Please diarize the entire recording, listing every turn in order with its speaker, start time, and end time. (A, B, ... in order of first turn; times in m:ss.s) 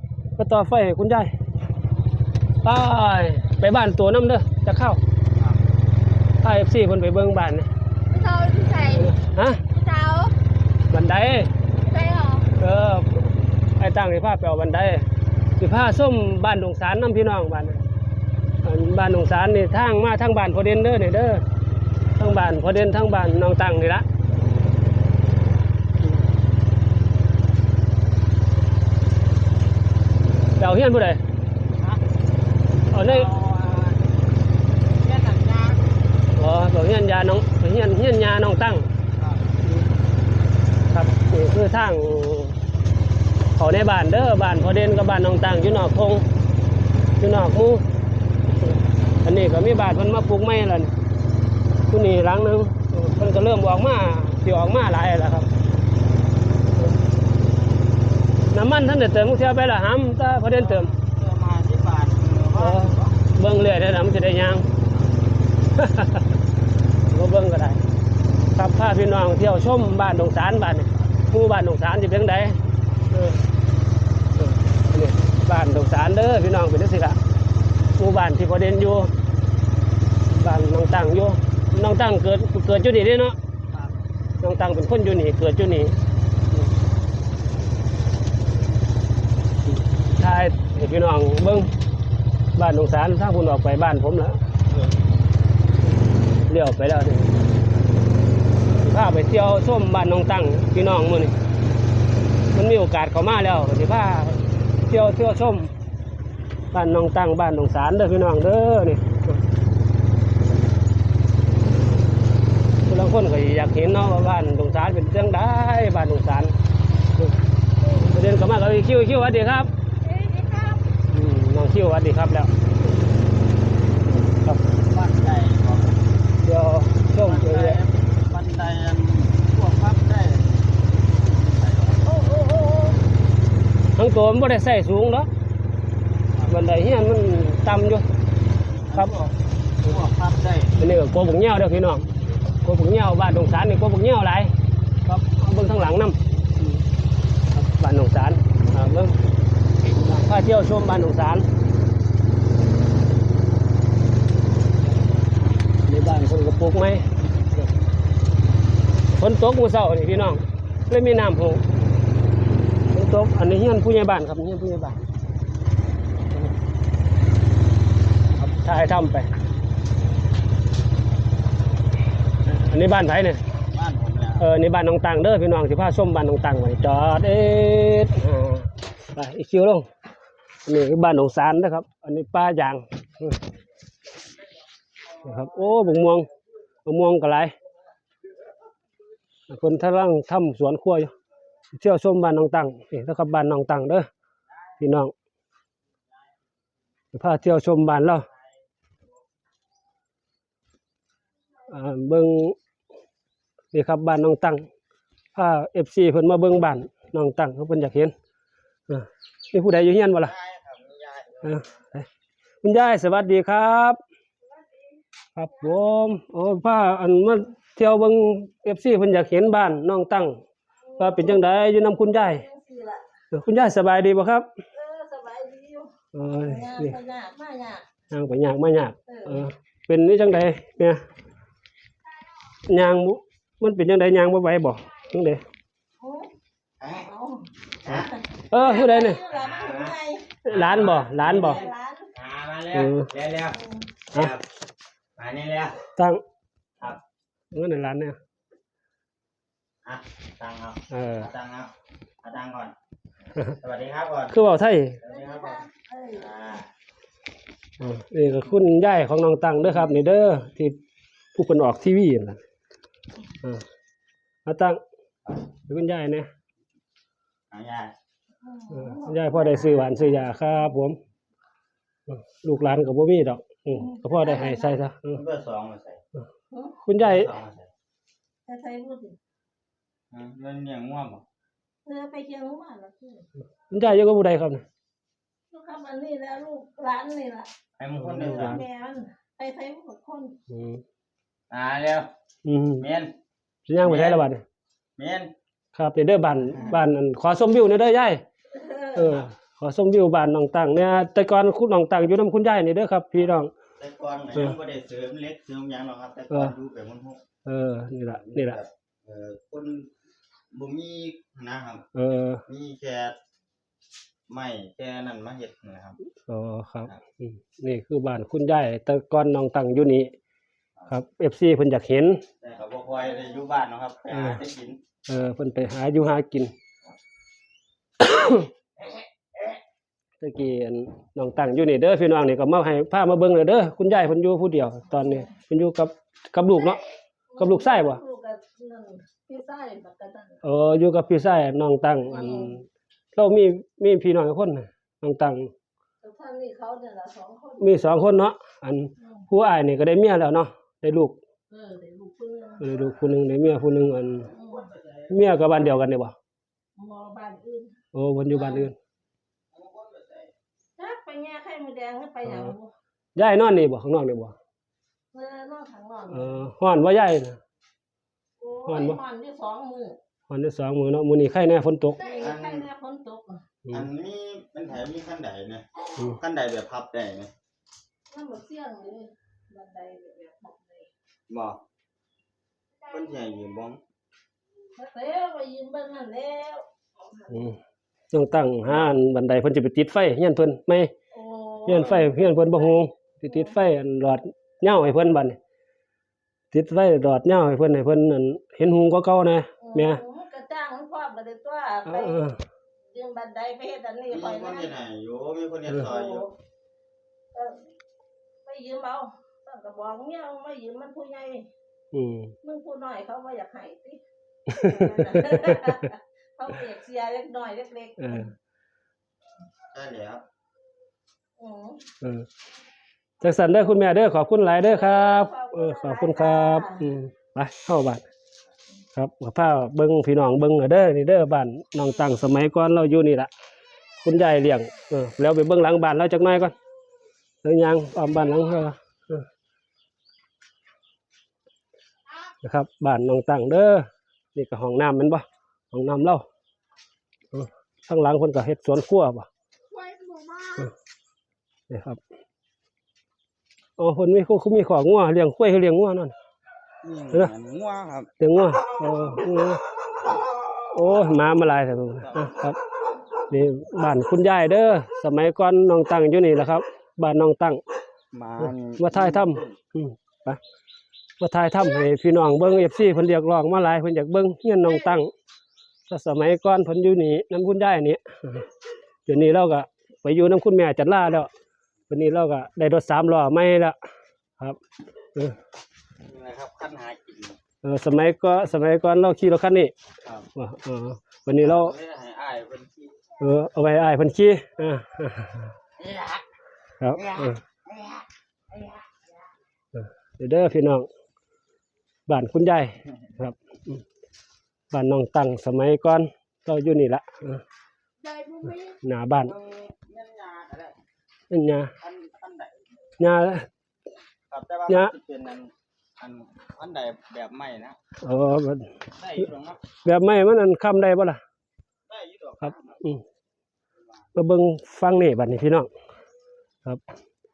0:00.4-0:01.3 A
0:02.6-0:05.0 A
0:06.4-0:07.7 A
0:08.1-0:09.1 B
0:08.9-0:09.6 A
0:09.7-0:10.3 B
0:10.9-0:11.5 A
0:11.8-0:12.5 B
0:12.6-0:15.0 A
0:15.6-0:17.8 A
0:18.6-0:21.4 A
0:22.2-0:24.0 A
0:30.6-0:31.2 A
0:32.9-0:33.3 A
0:32.9-0:34.0 C
0:34.9-0:35.8 C
0:36.4-0:38.9 A
0:40.9-0:42.6 A
0:43.6-0:46.2 A
0:47.2-0:47.8 A
0:49.2-0:50.9 A
0:51.9-0:55.5 A
0:58.5-1:00.9 A
1:00.5-1:03.1 C
1:02.6-1:04.6 A
1:05.8-1:06.3 A
1:07.1-1:07.8 A
1:08.5-1:12.6 A
1:13.1-1:13.4 A
1:14.4-1:17.2 A
1:18.0-1:19.1 A
1:20.3-1:23.4 A
1:24.4-1:25.9 A
1:29.7-1:31.7 A
1:32.5-1:34.4 A
1:36.5-1:37.3 A
1:38.8-1:41.4 A
1:42.5-1:45.7 A
1:46.7-1:49.2 A
1:52.8-1:56.5 A
1:57.9-1:59.7 A
2:00.0-2:00.9 B
2:01.1-2:02.5 A
2:04.3-2:04.6 A
2:04.8-2:06.0 C
2:06.4-2:07.8 A
2:07.2-2:12.1 C
2:12.0-2:13.0 B
2:14.0-2:15.3 A
2:16.5-2:18.0 A
2:18.8-2:20.8 C
2:20.8-2:22.0 A
2:22.6-2:24.5 A
2:25.0-2:26.8 A
2:27.5-2:29.2 A
2:30.0-2:31.4 A
2:35.9-2:37.1 A
2:39.2-2:41.6 A
2:42.9-2:45.0 A
2:48.4-2:49.3 A
2:52.5-2:53.4 A
2:53.7-2:54.4 C
2:54.4-2:59.9 A
3:00.6-3:03.4 A
3:05.2-3:06.3 A
3:06.8-3:07.5 A
3:09.5-3:11.1 A
3:11.7-3:14.1 A
3:14.8-3:15.1 A
3:17.1-3:18.2 A
3:21.7-3:22.6 A
3:23.7-3:24.6 A
3:25.3-3:28.1 A
3:28.9-3:30.3 A
3:30.2-3:31.7 C
3:31.4-3:32.1 A
3:32.6-3:34.0 A
3:34.4-3:35.0 B
3:35.3-3:40.4 A
3:40.9-3:43.0 B
3:41.0-3:42.4 A
3:43.3-3:44.4 A
3:44.7-3:47.8 B
3:46.1-3:47.0 A
3:48.1-3:51.0 A
3:49.1-3:49.5 B
3:52.6-3:55.4 A
3:56.0-3:56.3 B
3:56.8-3:57.1 C
3:57.0-4:00.3 B
3:57.8-3:58.1 C
3:58.5-3:59.2 A
3:59.3-4:03.6 C
4:00.4-4:01.6 A
4:01.2-4:02.1 B
4:02.7-4:03.1 A
4:03.5-4:03.9 B
4:04.1-4:04.4 C
4:05.2-4:05.8 C
4:06.0-4:06.2 A
4:07.5-4:08.2 A
4:09.8-4:12.7 C
4:10.9-4:11.3 A
4:13.6-4:14.4 C
4:14.3-4:15.0 A
4:15.0-4:16.7 C
4:15.0-4:16.3 B
4:17.8-4:20.8 A
4:21.3-4:22.4 A
4:24.4-4:24.8 A
4:25.6-4:26.3 A
4:27.5-4:27.9 C
4:28.4-4:30.3 B
4:28.7-4:31.0 A
4:32.1-4:35.2 A
4:33.7-4:34.8 B
4:35.1-4:36.0 C
4:36.5-4:36.8 B
4:36.8-4:37.3 A
4:37.0-4:37.7 C
4:38.4-4:39.2 B
4:40.1-4:41.2 C
4:41.8-4:43.3 B
4:43.7-4:44.6 A
4:45.5-4:47.5 B
4:47.8-4:48.6 C
4:48.0-4:48.6 A
4:48.2-4:50.4 B
4:50.5-4:50.8 A
4:51.5-4:52.1 C
4:52.4-4:52.8 A
4:52.8-4:53.1 C
4:53.7-4:54.4 A
4:53.8-4:54.2 C
4:55.0-4:55.3 C
4:55.7-4:58.2 A
4:56.5-4:56.8 C
4:58.5-4:59.2 B
4:58.9-5:03.5 A
5:03.8-5:07.2 C
5:07.4-5:08.6 A
5:08.1-5:09.9 C
5:10.5-5:11.8 C
5:11.9-5:12.4 A
5:12.4-5:13.2 C
5:14.3-5:16.0 C
5:16.3-5:20.1 A
5:20.9-5:22.2 A
5:22.4-5:24.8 C
5:24.1-5:24.4 A
5:25.1-5:26.5 A
5:28.0-5:28.5 A
5:30.2-5:36.8 A
5:37.3-5:40.4 B
5:37.4-5:38.0 A
5:40.4-5:42.6 A
5:42.1-5:42.6 B
5:43.1-5:45.5 A
5:46.0-5:47.8 B
5:47.6-5:51.2 A
5:51.5-5:52.6 B
5:52.6-5:54.3 A
5:54.3-5:55.2 C
5:54.3-5:54.7 B
5:55.1-5:56.1 A
5:56.8-5:57.7 B
5:57.9-5:58.7 A
5:58.3-5:58.7 B
5:59.5-6:00.3 C
6:00.8-6:02.7 B
6:02.2-6:02.5 A
6:03.1-6:04.3 A
6:05.1-6:06.4 B
6:06.1-6:07.4 A
6:08.4-6:10.0 B
6:08.6-6:09.0 A
6:10.3-6:12.0 A
6:12.0-6:13.4 B
6:12.1-6:12.7 C
6:13.7-6:17.3 C
6:18.1-6:20.9 B
6:21.3-6:21.6 C
6:22.9-6:23.8 C
6:24.8-6:27.5 B
6:27.3-6:27.6 A
6:28.1-6:30.9 A
6:28.7-6:29.0 C
6:31.1-6:33.6 B
6:31.6-6:35.4 A
6:31.7-6:32.1 C
6:36.5-6:40.0 A
6:39.6-6:42.2 B
6:41.9-6:42.4 A
6:42.9-6:44.7 B
6:44.1-6:46.3 C
6:45.8-6:46.3 B
6:47.3-6:47.6 B
6:48.4-6:51.5 B
6:51.9-6:52.3 A
6:52.4-6:54.0 B
6:54.5-6:55.7 A
6:54.5-6:58.3 B
6:58.0-6:58.3 A
6:59.7-7:00.2 C
7:01.4-7:01.8 B
7:03.2-7:08.0 A
7:04.6-7:06.8 B
7:08.9-7:13.3 A
7:14.0-7:16.5 A
7:17.4-7:19.2 A
7:22.4-7:26.2 A
7:27.3-7:29.3 A
7:29.7-7:30.7 B
7:31.7-7:32.0 A
7:33.8-7:36.1 A
7:36.8-7:38.1 C
7:38.2-7:39.6 A
7:40.7-7:42.6 A
7:42.0-7:42.4 C
7:43.3-7:47.6 A
7:48.1-7:49.6 C
7:48.4-7:50.4 A
7:51.2-7:55.1 A
7:55.9-7:58.4 A
7:59.0-8:01.3 A
8:01.9-8:03.8 A
8:06.0-8:07.4 C
8:07.6-8:09.7 A
8:10.4-8:11.7 A
8:11.4-8:13.0 C
8:13.2-8:15.5 A
8:15.8-8:16.2 C
8:16.8-8:17.4 A
8:16.9-8:18.8 C
8:19.7-8:20.9 A
8:22.1-8:23.8 A
8:24.7-8:27.4 A
8:28.0-8:28.8 B
8:28.8-8:29.3 A
8:29.2-8:30.8 C
8:31.3-8:31.7 A
8:31.8-8:32.6 C
8:33.0-8:33.5 A
8:34.3-8:37.8 C
8:38.0-8:38.8 A
8:38.9-8:39.6 C
8:39.8-8:41.2 A
8:41.9-8:42.8 C
8:42.4-8:43.0 A
8:44.1-8:45.7 A